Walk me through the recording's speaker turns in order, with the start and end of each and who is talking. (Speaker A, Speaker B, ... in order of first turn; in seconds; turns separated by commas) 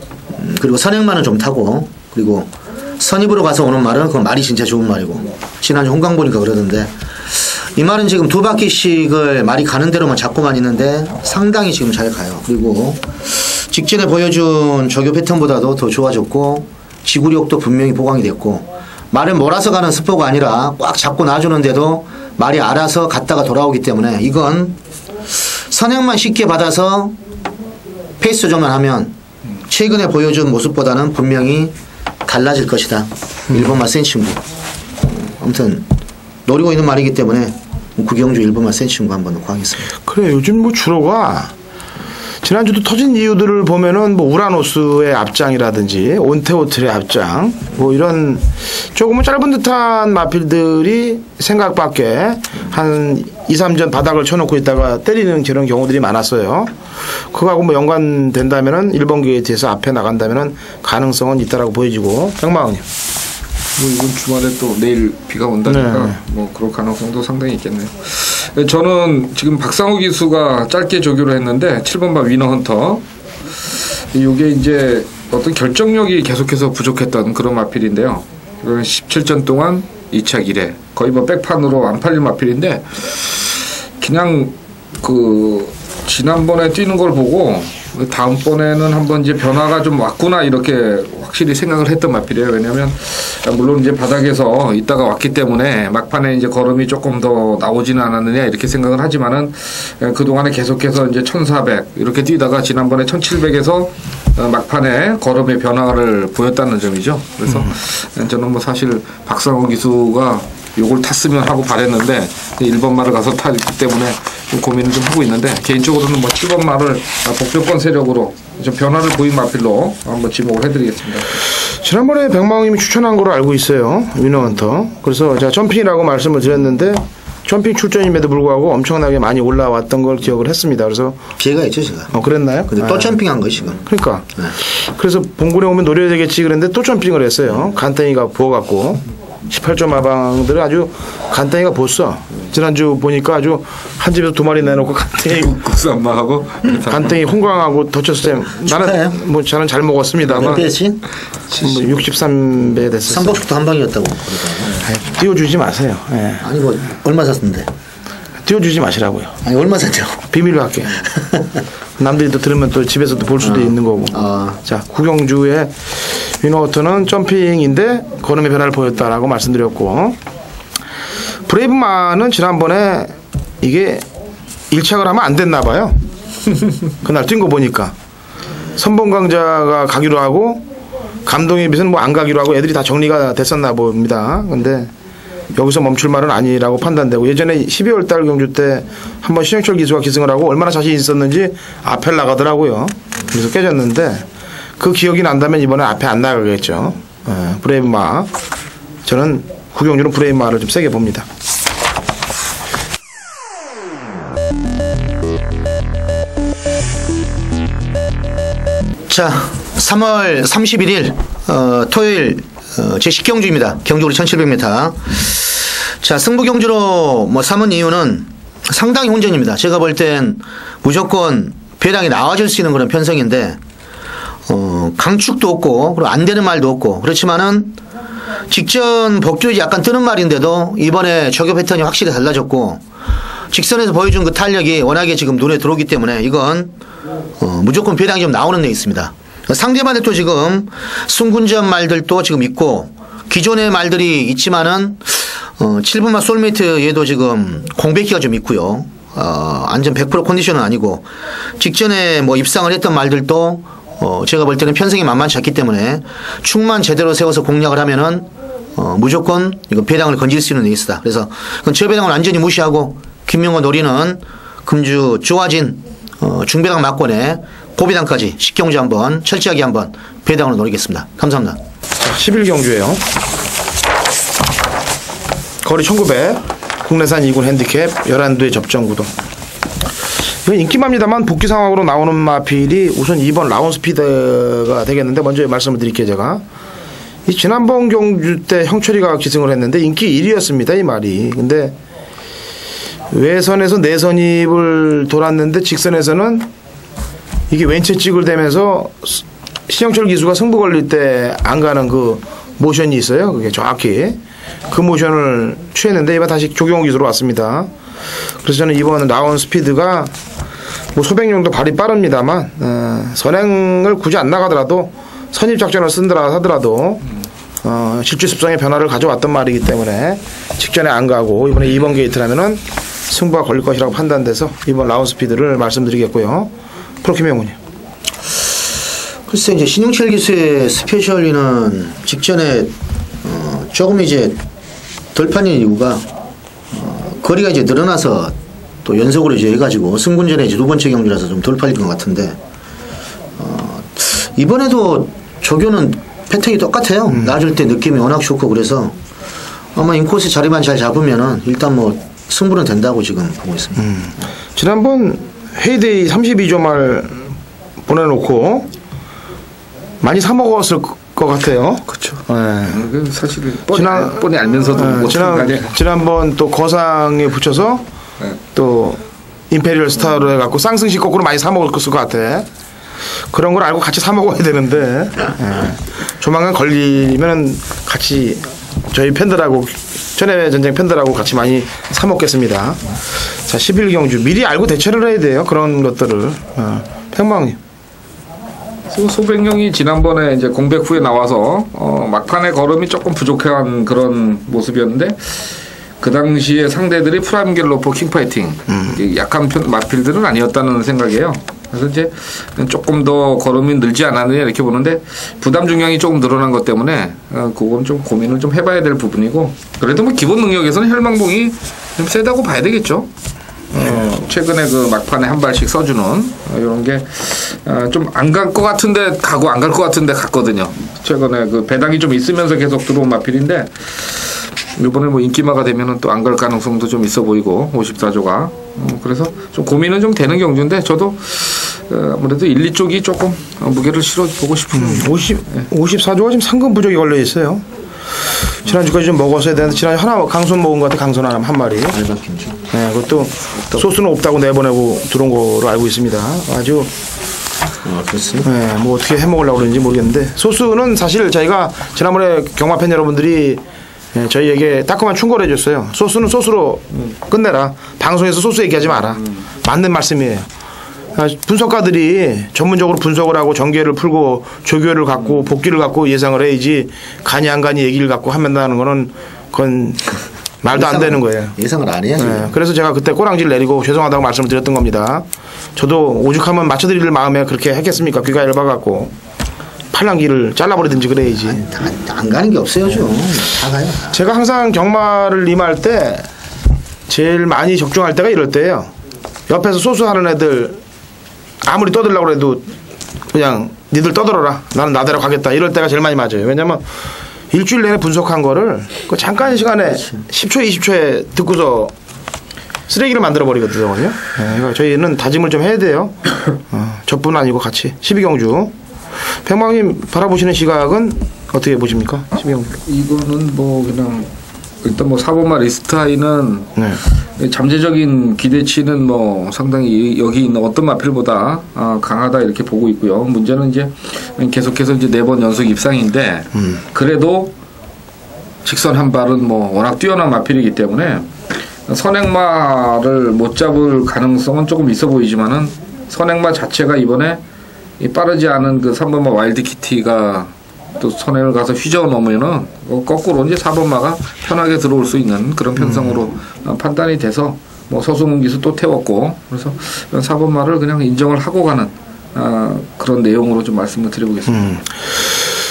Speaker A: 0.3-24.8, Speaker A: 25.6-27.2, Speaker A: 28.2-29.2, Speaker A: 29.7-31.7, Speaker A: 32.3-34.4, Speaker A: 35.0-35.9, Speaker A: 36.5-39.9, Speaker B: 40.0-41.5, Speaker B: 42.4-56.7, Speaker B: 57.3-62.9, Speaker C: 63.8-73.0, Speaker B: 65.7-66.2, Speaker C: 74.1-121.3, Speaker B: 121.8-131.2, Speaker A: 131.4-132.1, Speaker B: 132.1-133.2, Speaker A: 132.7-133.8, Speaker B: 133.8-145.6, Speaker C: 145.3-147.1, Speaker B: 146.8-150.7, Speaker A: 148.7-149.2, Speaker A: 150.3-151.0, Speaker B: 151.5-153.4, Speaker A: 153.1-154.8, Speaker B: 154.8-156.5, Speaker A: 156.4-157.7, Speaker B: 158.4-159.4, Speaker A: 159.4-160.2, Speaker B: 160.3-161.1, Speaker B: 162.0-170.2, Speaker A: 163.4-164.6, Speaker B: 171.5-174.1, Speaker B: 174.7-176.1, Speaker B: 177.0-177.9, Speaker B: 178.8-180.7, Speaker B: 181.3-184.9, Speaker B: 185.6-194.3, Speaker B: 194.8-198.3, Speaker B: 199.1-201.3, Speaker A: 209.1-223.6, Speaker A: 224.5-227.8, Speaker A: 228.5-232.8, Speaker A: 233.5-236.7, Speaker A: 237.4-251.1, Speaker A: 251.6-271.6, Speaker B: 272.0-273.0, Speaker B: 275.6-279.1, Speaker B: 280.4-286.4, Speaker B: 287.3-291.8, Speaker B: 293.1-296.5, Speaker B: 297.5-307.7, Speaker B: 308.4-310.1, Speaker B: 310.9-317.1, Speaker B: 317.6-327.6, Speaker A: 329.3-334.4, Speaker A: 335.1-336.1, Speaker A: 336.7-342.4, Speaker A: 343.4-348.9, Speaker A: 349.8-353.9, Speaker B: 353.8-357.3, Speaker B: 357.9-358.7, Speaker B: 360.0-362.8, Speaker C: 361.9-365.7, Speaker B: 363.7-367.9, Speaker B: 368.5-372.5, Speaker B: 373.3-382.8, Speaker B: 383.4-387.6, Speaker C: 388.9-395.4, Speaker C: 396.0-413.1, Speaker B: 413.7-414.2, Speaker C: 413.8-423.9, Speaker C: 424.8-435.7, Speaker B: 434.8-437.6, Speaker B: 438.6-442.0, Speaker A: 441.9-442.6, Speaker B: 442.7-446.9, Speaker A: 447.8-448.5, Speaker B: 448.4-453.6, Speaker B: 454.1-460.5, Speaker B: 461.1-471.6, Speaker A: 470.7-472.6, Speaker B: 472.2-475.2, Speaker B: 475.8-479.1, Speaker B: 479.9-481.6, Speaker A: 481.4-484.2, Speaker B: 484.1-486.3, Speaker B: 487.1-488.9, Speaker B: 489.5-490.8, Speaker B: 491.6-492.7, Speaker B: 493.3-496.9, Speaker B: 497.5-501.9, Speaker B: 502.9-506.2, Speaker B: 506.7-508.7, Speaker B: 509.4-512.8, Speaker C: 512.8-514.3, Speaker C: 514.8-527.5, Speaker C: 528.6-531.3, Speaker C: 531.9-537.4, Speaker C: 538.0-554.7, Speaker B: 545.9-546.1, Speaker B: 554.5-555.0